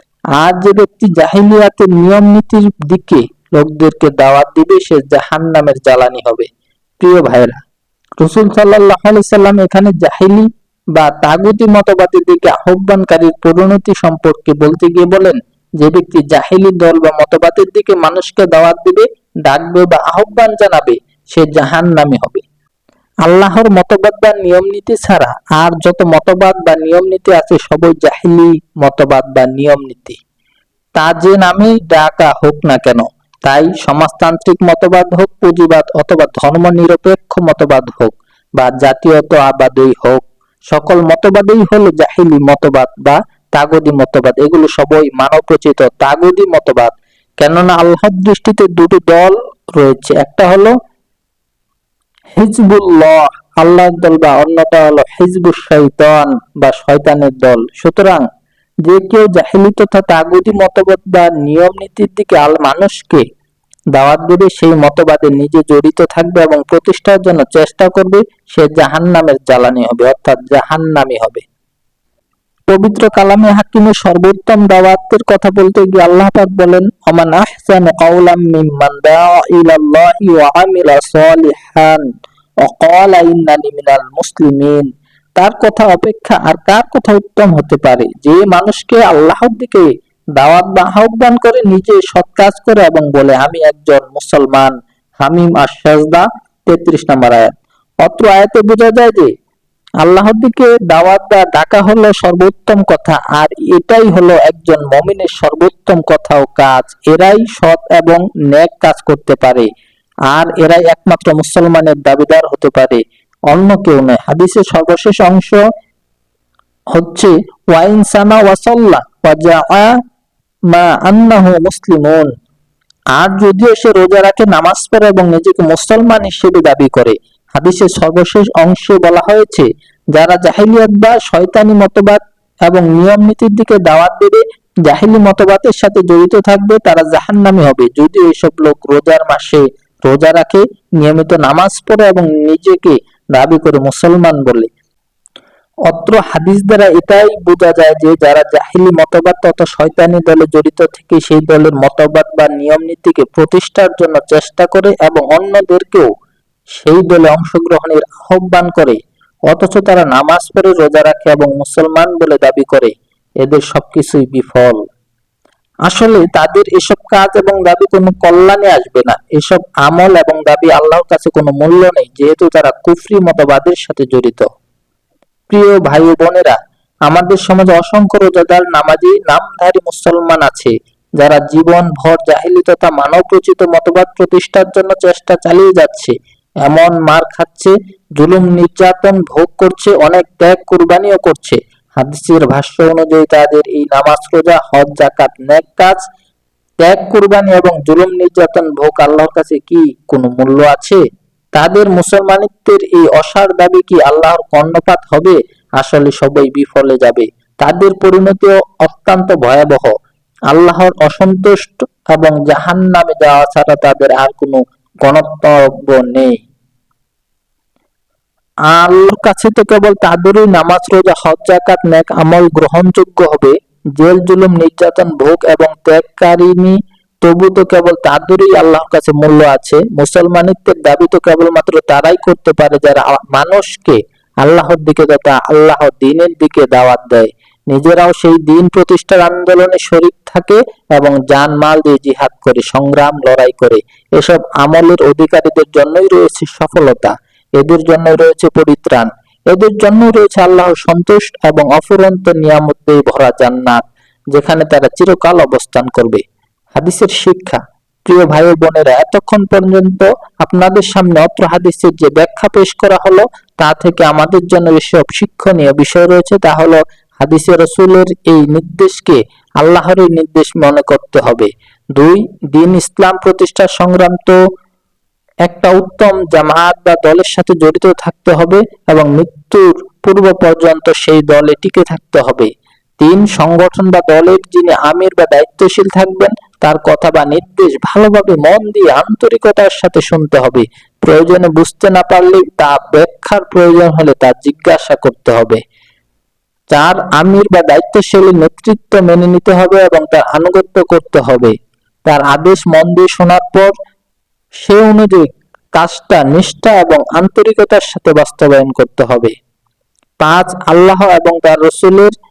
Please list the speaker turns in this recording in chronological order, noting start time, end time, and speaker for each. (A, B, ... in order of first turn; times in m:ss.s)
0:00.4-0:06.5 A
0:07.0-0:07.6 A
0:08.2-0:22.4 A
0:23.2-0:30.2 A
0:31.0-0:50.7 A
0:52.4-0:58.3 A
0:58.8-1:03.2 A
1:03.9-1:11.4 A
1:12.7-1:22.0 A
1:22.6-1:24.9 A
1:25.4-1:37.5 A
1:38.0-1:39.3 A
1:40.0-1:49.7 A
1:50.3-1:55.6 A
1:56.9-1:59.9 A
2:00.7-2:02.3 A
2:03.2-2:24.7 A
2:25.9-2:36.1 A
2:36.7-2:39.0 A
2:39.5-2:44.8 A
2:45.9-2:54.5 A
2:55.5-3:06.1 A
3:06.6-3:16.0 A
3:16.8-3:21.0 A
3:21.6-3:29.9 A
3:30.5-3:36.4 A
3:38.7-4:16.2 A
4:16.8-4:34.4 A
4:35.5-4:55.6 A
4:56.7-5:01.5 A
5:02.1-5:03.7 A
5:04.6-5:09.3 A
5:10.2-5:12.1 A